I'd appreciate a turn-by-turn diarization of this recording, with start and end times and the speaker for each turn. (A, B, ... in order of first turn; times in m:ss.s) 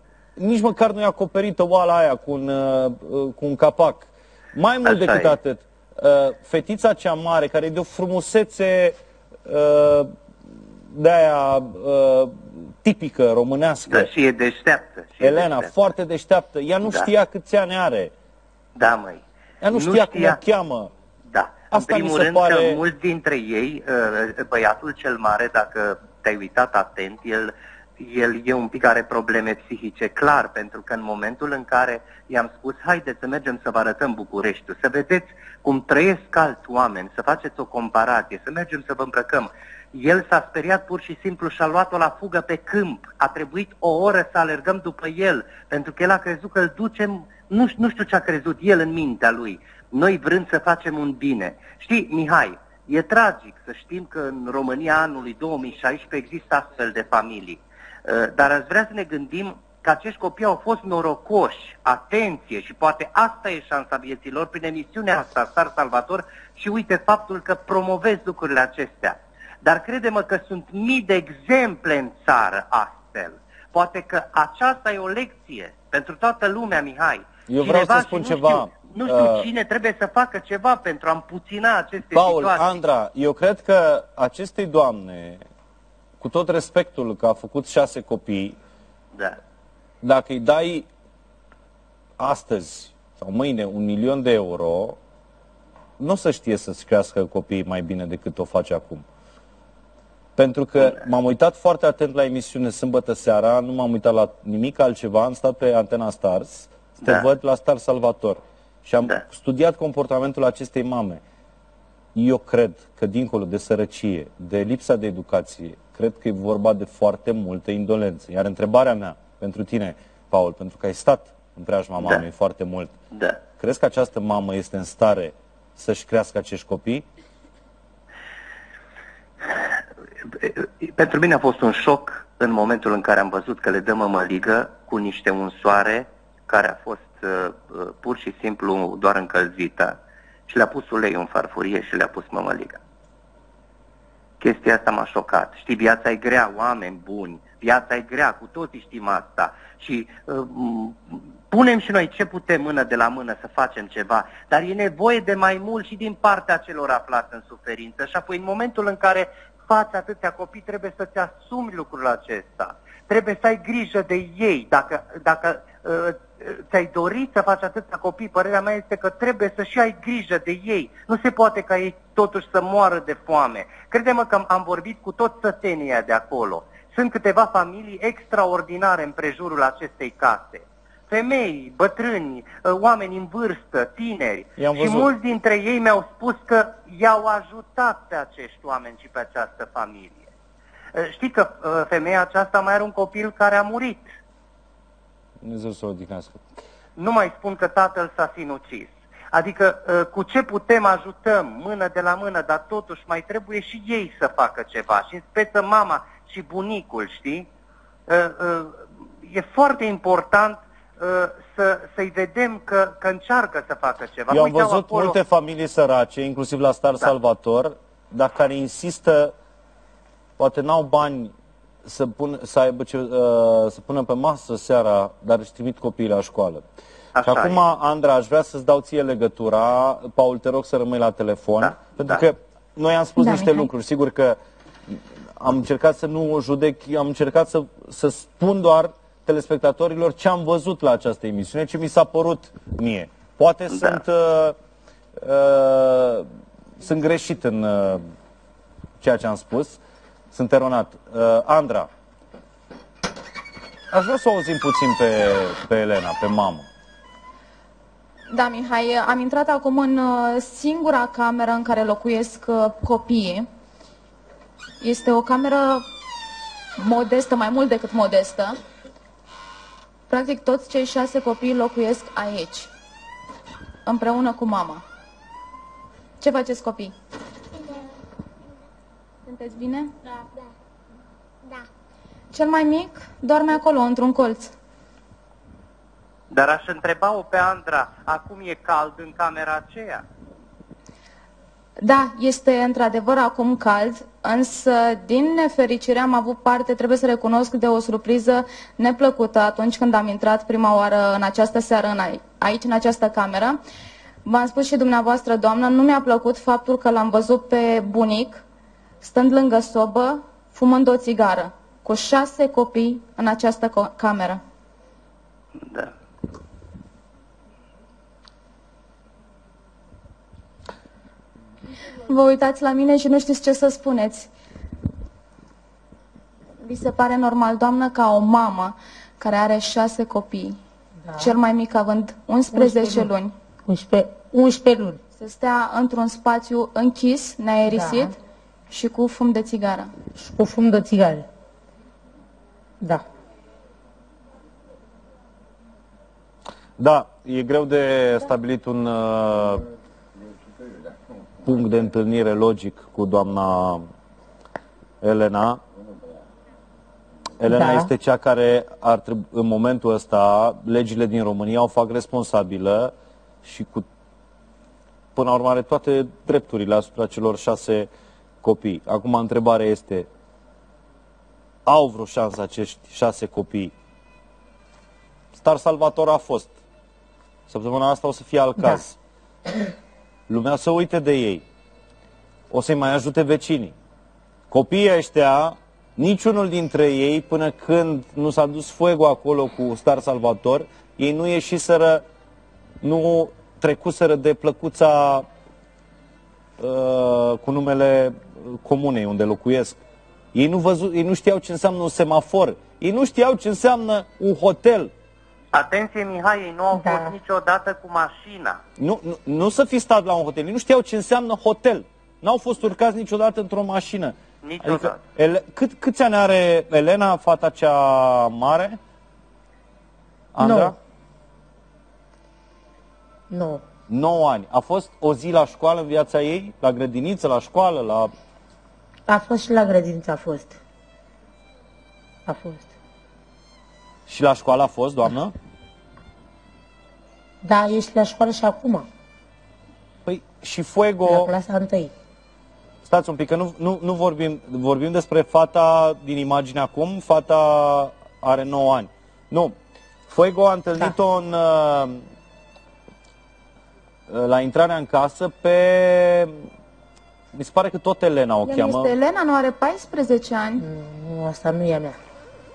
0:00.4-0:10.1 A
0:04.8-0:05.4 B
0:10.9-0:14.1 A
0:13.9-0:15.7 B
0:15.2-0:18.1 A
0:16.8-0:17.1 B
0:18.8-0:20.4 B
0:19.6-0:20.9 A
0:21.3-1:22.8 B
0:21.7-0:22.8 A
1:17.5-1:19.5 A
1:22.1-1:25.4 A
1:26.2-1:28.6 A
1:30.0-1:30.9 A
1:32.2-1:35.0 A
1:36.0-1:39.0 A
1:40.4-1:51.2 A
1:52.2-2:02.9 A
2:02.0-2:02.2 B
2:03.1-2:03.4 B
2:03.6-2:07.1 A
2:10.2-2:20.0 B
2:20.5-2:22.8 B
2:24.4-3:10.3 B
3:04.6-3:05.1 A
3:10.9-3:14.1 B
3:15.4-3:16.4 A
3:17.0-3:27.5 B
3:28.1-3:35.2 B
3:34.3-3:39.3 A
3:40.4-3:41.3 A
3:41.8-3:46.6 A
3:47.2-3:47.6 B
3:47.2-3:54.4 A
3:51.6-3:52.2 B
3:53.2-3:53.7 C
3:54.9-4:04.6 A
4:05.2-4:06.3 A
4:06.8-4:08.0 A
4:09.0-4:09.8 A
4:10.3-4:11.9 A
4:13.9-4:16.7 A
4:18.3-4:23.5 C
4:24.8-4:25.8 C
4:26.8-4:28.6 C
4:30.1-4:32.7 C
4:33.9-4:34.8 C
4:36.2-4:36.9 C
4:39.3-4:40.2 C
4:42.3-4:44.5 C
4:46.3-4:50.0 B
4:51.8-5:03.6 C
5:04.2-5:08.4 C
5:09.0-5:14.4 C
5:15.7-5:15.9 B
5:21.9-5:24.3 C
5:26.6-5:30.6 C
5:31.1-5:31.4 D
5:31.2-5:33.3 C
5:32.5-5:33.1 D
5:33.6-5:35.0 D
5:35.2-5:38.2 C
5:37.7-5:38.2 D
5:38.7-5:39.9 C
5:40.2-5:41.3 D
5:46.8-5:49.6 A
5:51.4-5:53.8 A
5:55.0-5:55.6 A
5:57.4-6:02.9 A
5:57.5-5:57.9 D
6:03.4-6:03.9 A
6:05.2-6:07.9 A
6:08.4-6:10.1 A
6:11.7-6:13.7 A
6:15.3-6:16.5 A
6:17.5-6:19.0 A
6:20.3-6:21.4 A
6:22.5-6:23.7 A
6:24.5-6:32.0 A
6:32.8-6:35.3 A
6:36.6-6:39.8 A
6:40.3-6:44.9 A
6:45.5-6:48.6 B
6:46.7-6:47.2 D
6:48.8-6:58.8 A
6:54.4-6:55.0 B
7:00.4-7:00.8 A
7:00.4-7:00.7 D
7:03.3-7:03.6 D
7:03.9-7:08.1 A
7:09.1-7:10.6 D
7:12.3-7:12.7 D
7:14.1-7:15.3 A
7:17.4-7:18.9 D
7:20.1-7:21.3 A
7:21.1-7:21.9 D
7:22.8-7:29.6 A
7:30.1-7:32.0 A
7:34.1-7:36.4 A
7:37.3-7:39.0 A
7:38.4-7:40.6 C
7:40.6-7:42.0 D